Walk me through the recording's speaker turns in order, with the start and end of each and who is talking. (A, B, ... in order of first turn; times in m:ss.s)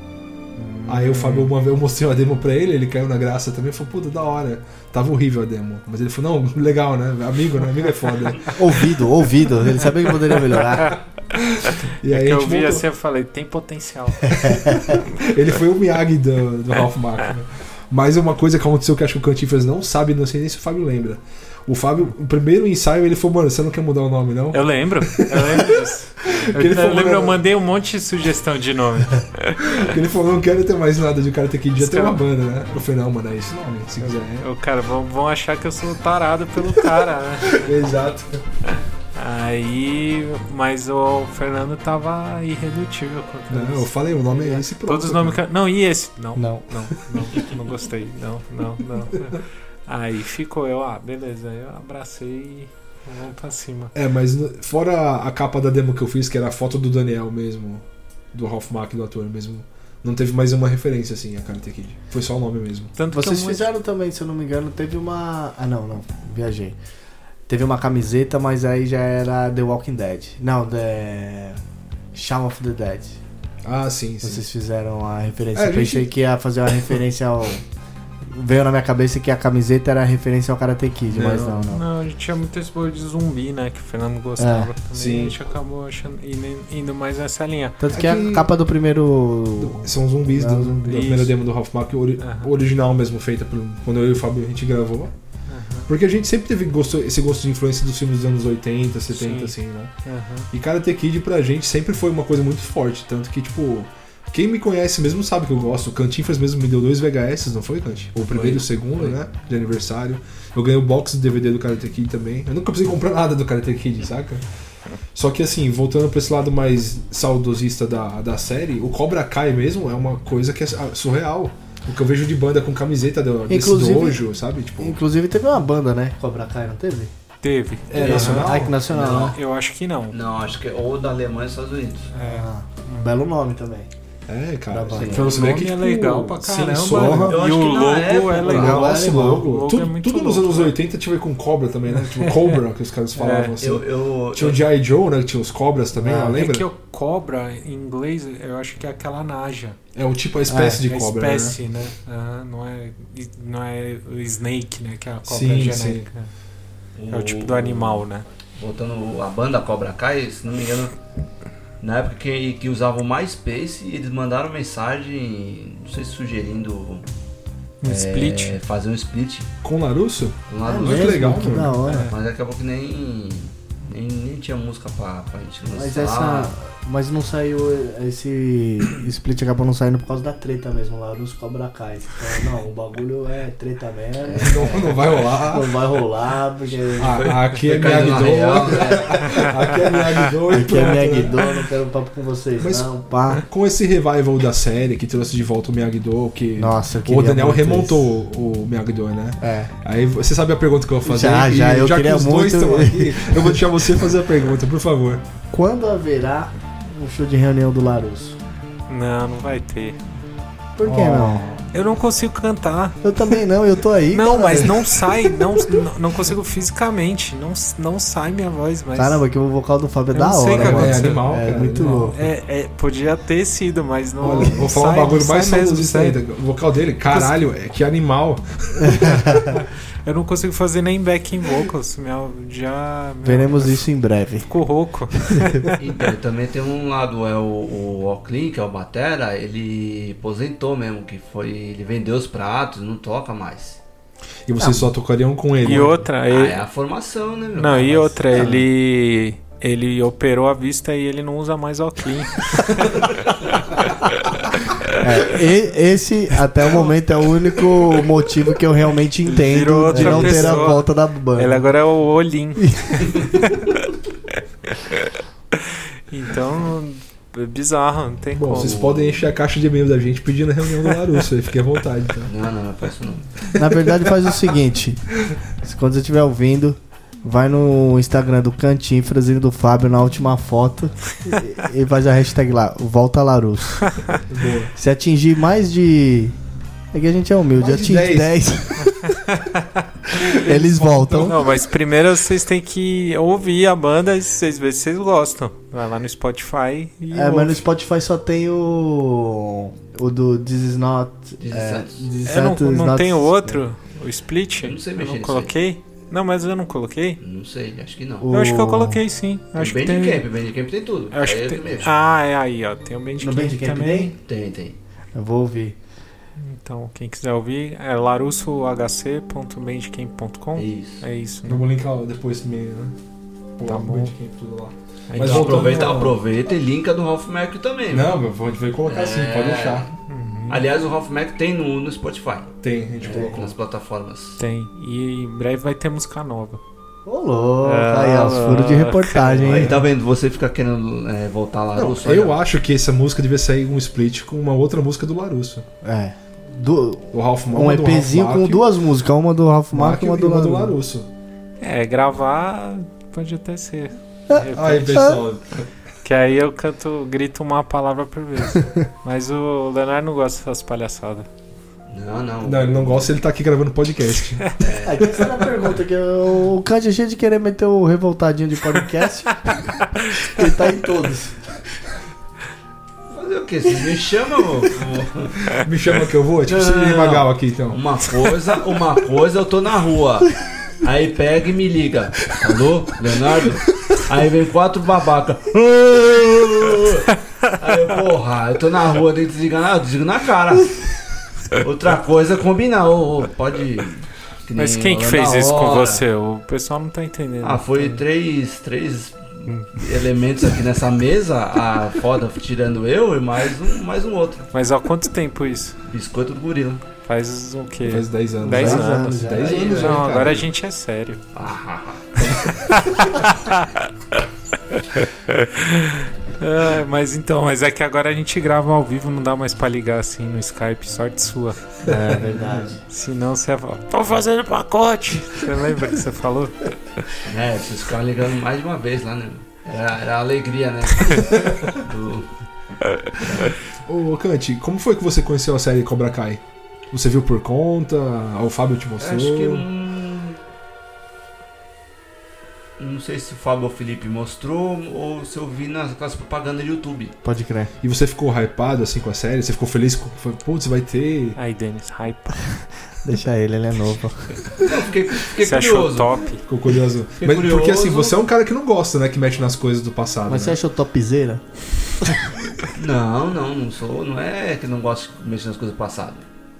0:00.6-0:01.0 A
0:00.9-0:08.6 B
0:01.0-0:01.5 C
0:08.5-0:11.0 A
0:11.3-0:12.8 B
0:12.1-0:14.4 C
0:14.3-0:14.9 A
0:14.4-0:27.4 B
0:24.5-0:29.8 C
0:29.6-0:34.5 B
0:31.8-0:32.2 C
0:34.0-0:37.7 C
0:37.5-0:38.4 B
0:38.7-0:53.9 C
0:43.5-0:45.4 B
0:46.4-0:46.7 A
0:53.9-1:02.9 B
1:03.0-1:03.6 C
1:03.1-1:06.8 A
1:07.5-1:11.6 A
1:12.1-1:13.2 A
1:13.6-1:14.5 B
1:14.2-1:17.6 A
1:15.5-1:16.1 B
1:18.3-1:21.8 A
1:21.1-1:21.6 B
1:21.7-1:27.8 C
1:24.4-1:24.7 A
1:24.9-1:25.4 B
1:27.8-1:30.9 A
1:27.9-1:28.5 B
1:29.6-1:35.1 B
1:30.8-1:31.3 C
1:32.2-1:32.5 C
1:35.5-1:35.9 C
1:35.9-1:39.9 B
1:39.1-1:40.5 C
1:40.5-1:54.4 B
1:48.3-1:49.1 C
1:55.1-2:05.0 B
2:03.5-2:04.2 A
2:04.8-2:07.1 A
2:07.4-2:08.2 C
2:07.9-2:08.7 B
2:07.9-2:09.4 D
2:07.9-2:09.4 A
2:09.1-2:10.2 C
2:10.1-2:12.1 D
2:12.1-2:13.2 C
2:12.2-2:13.9 A
2:14.3-2:17.4 B
2:14.7-2:15.4 A
2:14.9-2:15.4 D
2:15.1-2:20.8 C
2:16.9-2:17.4 A
2:17.1-2:18.9 D
2:18.4-2:19.5 A
2:18.5-2:26.7 B
2:22.1-2:22.6 C
2:23.1-2:23.5 C
2:23.6-2:24.6 D
2:26.0-2:26.4 A
2:26.3-2:29.8 C
2:29.9-2:31.6 B
2:30.5-2:30.8 A
2:30.9-2:36.3 C
2:35.2-2:36.1 B
2:37.0-2:38.0 D
2:37.1-2:38.2 C
2:38.6-2:40.9 D
2:41.8-2:47.0 D
2:47.8-2:48.6 C
2:47.8-2:49.5 D
2:49.6-2:51.8 B
2:50.5-2:51.3 D
2:50.6-2:52.1 A
2:51.8-2:52.1 C
2:52.0-2:56.5 D
2:55.7-3:07.3 A
3:04.2-3:05.1 D
3:04.4-3:05.7 B
3:07.0-3:11.4 B
3:07.2-3:09.4 D
3:10.5-3:13.4 A
3:12.6-3:25.2 B
3:16.6-3:18.0 A
3:19.4-3:19.7 A
3:21.0-3:24.0 A
3:25.5-3:28.4 A
3:28.9-3:30.0 C
3:30.8-3:31.6 A
3:30.8-3:31.6 B
3:31.7-3:33.0 C
3:33.0-3:34.9 A
3:34.1-3:39.2 C
3:38.9-3:42.2 A
3:40.1-3:41.2 C
3:40.5-3:42.1 B
3:41.8-3:46.2 C
3:44.2-3:49.5 B
3:47.0-3:47.4 C
3:48.8-3:49.5 A
3:49.5-3:53.9 C
3:53.2-3:54.5 A
3:54.4-3:55.8 C
3:55.2-3:55.7 A
3:55.8-4:03.8 D
4:04.5-4:06.0 B
4:04.6-4:04.9 A
4:05.6-4:06.6 C
4:06.3-4:08.4 D
4:07.6-4:15.0 C
4:08.3-4:08.6 A
4:15.0-4:21.6 A
4:19.2-4:23.8 C
4:19.9-4:20.6 B
4:22.6-4:23.1 A
4:24.8-4:28.8 C
4:28.3-4:32.3 B
4:28.5-4:29.2 D
4:32.2-4:33.4 D
4:33.5-4:35.0 A
4:35.6-4:43.9 A
4:44.3-4:44.7 B
4:44.7-4:46.4 A
4:46.9-4:49.0 A
4:47.6-4:48.4 B
4:49.0-4:49.8 C
4:50.2-4:51.3 B
4:50.2-4:51.4 A
4:51.1-4:57.6 C
4:57.1-5:03.6 A
5:01.4-5:02.1 D
5:02.2-5:07.2 C
5:04.6-5:05.5 D
5:07.2-5:08.3 D
5:08.2-5:09.0 A
5:08.3-5:10.2 C
5:09.6-5:11.9 D
5:11.1-5:14.1 C
5:13.2-5:14.1 A
5:14.2-5:14.8 D
5:15.1-5:15.8 A
5:16.4-5:21.6 C
5:20.6-5:21.0 D
5:21.4-5:22.9 B
5:23.6-5:26.1 B
5:23.6-5:24.1 C
5:25.1-5:26.0 C
5:25.2-5:28.2 D
5:27.9-5:29.9 B
5:28.9-5:29.9 D
5:30.1-5:30.6 C
5:30.5-5:34.4 D
5:32.6-5:33.5 B
5:33.1-5:33.4 A
5:34.4-5:36.6 C
5:37.0-5:39.8 A
5:37.6-5:39.7 C
5:39.4-5:42.4 D
5:41.7-5:45.6 B
5:45.8-5:50.8 A
5:47.1-5:48.6 B
5:49.7-5:51.1 B
5:51.6-5:55.2 C
5:54.3-5:55.2 A
5:54.5-5:55.6 B
5:56.0-6:01.3 C
6:01.9-6:03.1 D
6:02.4-6:05.5 B
6:04.6-6:05.2 D
6:04.8-6:09.6 A
6:09.8-6:10.3 C
6:10.2-6:11.4 A
6:13.1-6:15.5 D
6:15.5-6:17.8 B
6:16.4-6:30.8 D
6:31.6-6:36.0 D
6:34.6-6:38.0 C
6:37.4-6:44.5 D
6:44.5-6:45.8 C
6:45.9-6:46.8 D
6:47.0-6:51.2 C
6:47.8-6:50.5 B
6:48.4-6:49.9 A
6:49.3-6:50.2 D
6:51.3-6:52.3 D
6:52.2-6:52.5 B
6:52.6-6:54.2 C
6:54.9-7:06.7 C
7:02.0-7:02.8 A
7:07.2-7:12.3 D
7:11.3-7:11.6 B
7:13.2-7:13.5 D
7:13.8-7:19.6 B
7:19.0-7:20.4 D
7:22.8-7:27.1 D
7:27.2-7:27.7 A
7:27.8-7:31.4 B
7:31.4-7:32.5 C
7:33.0-7:34.6 A
7:34.6-7:36.2 D
7:35.4-7:36.4 C
7:36.4-7:40.6 B
7:37.2-7:38.2 D
7:40.2-7:41.4 A
7:42.7-7:46.2 D